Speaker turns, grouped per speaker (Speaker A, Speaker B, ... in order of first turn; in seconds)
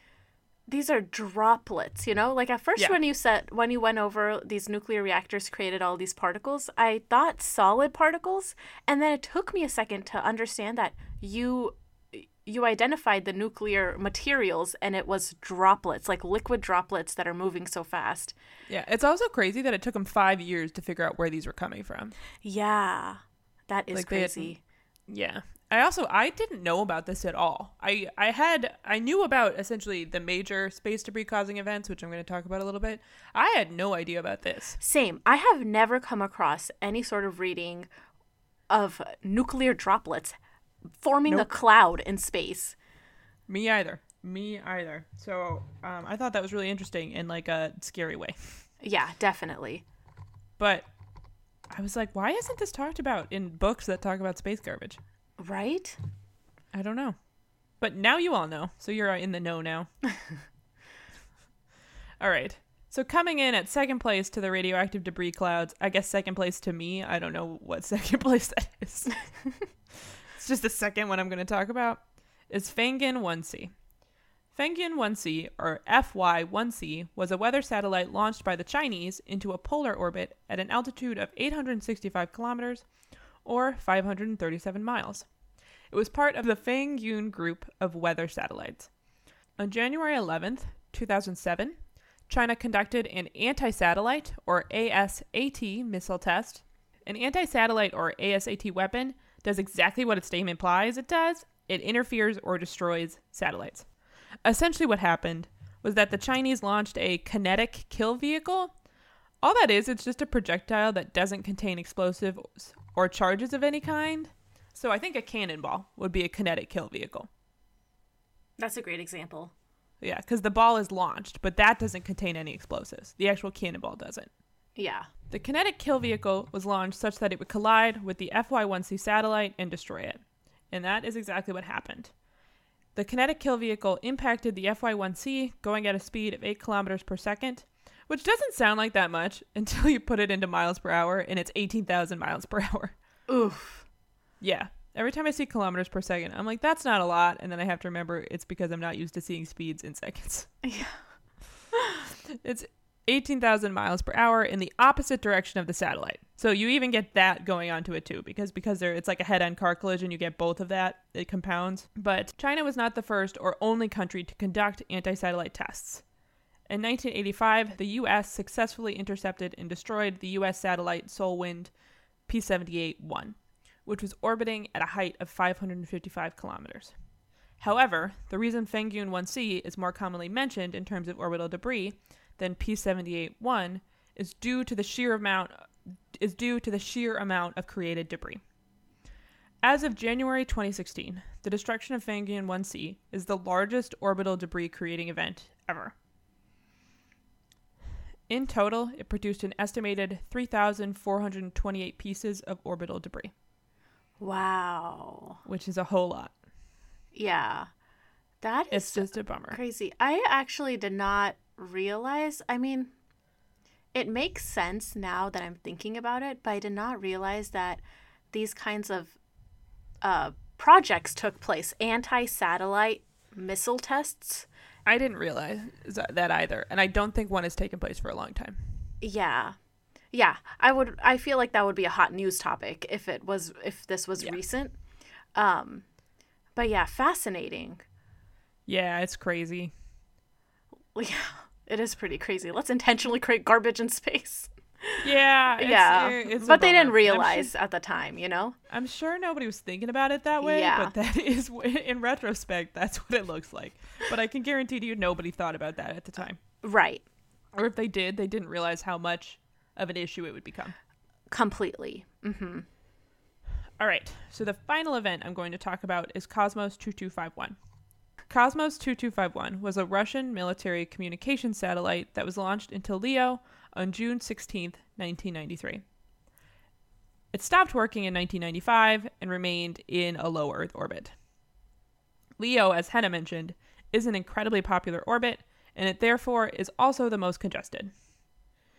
Speaker A: 0.7-18.4, 22.4-24.6, 34.8-37.9, 38.7-40.4, 41.0-42.8, 48.8-49.8, 55.4-56.0, 118.6-119.5, 124.8-125.1, 143.3-143.8, 150.6-151.0, 204.2-205.4, 207.1-207.7, 208.4-212.9, 213.9-217.8, 218.3-219.2, 220.0-224.5, 229.0-229.6, 230.1-234.8, 235.4-235.8, 236.6-237.8, 241.0-245.1, 245.6-248.6, 250.4-250.9, 256.6-257.0, 261.3-262.6
Speaker B: 18.7-22.1, 23.9-24.5, 25.1-34.8, 43.5-48.6, 50.6-50.9, 51.7-55.0, 56.7-57.1, 57.8-59.9, 62.2-69.3, 70.3-73.7, 74.5-82.8, 83.4-85.3, 85.9-88.9, 89.6-91.8, 92.3-103.9, 104.4-108.7, 109.4-117.3, 120.0-124.3, 125.3-132.1, 133.0-142.9, 144.4-150.5, 152.3-166.0, 166.7-171.7, 172.3-176.9, 177.6-188.4, 189.6-195.9, 198.3-203.3, 205.4-206.3, 208.7-209.6, 224.9-228.6, 238.7-239.7, 245.0-247.5, 248.7-256.4, 257.5-260.8, 263.8-267.6, 268.3-275.8, 277.3-281.1, 282.4-287.9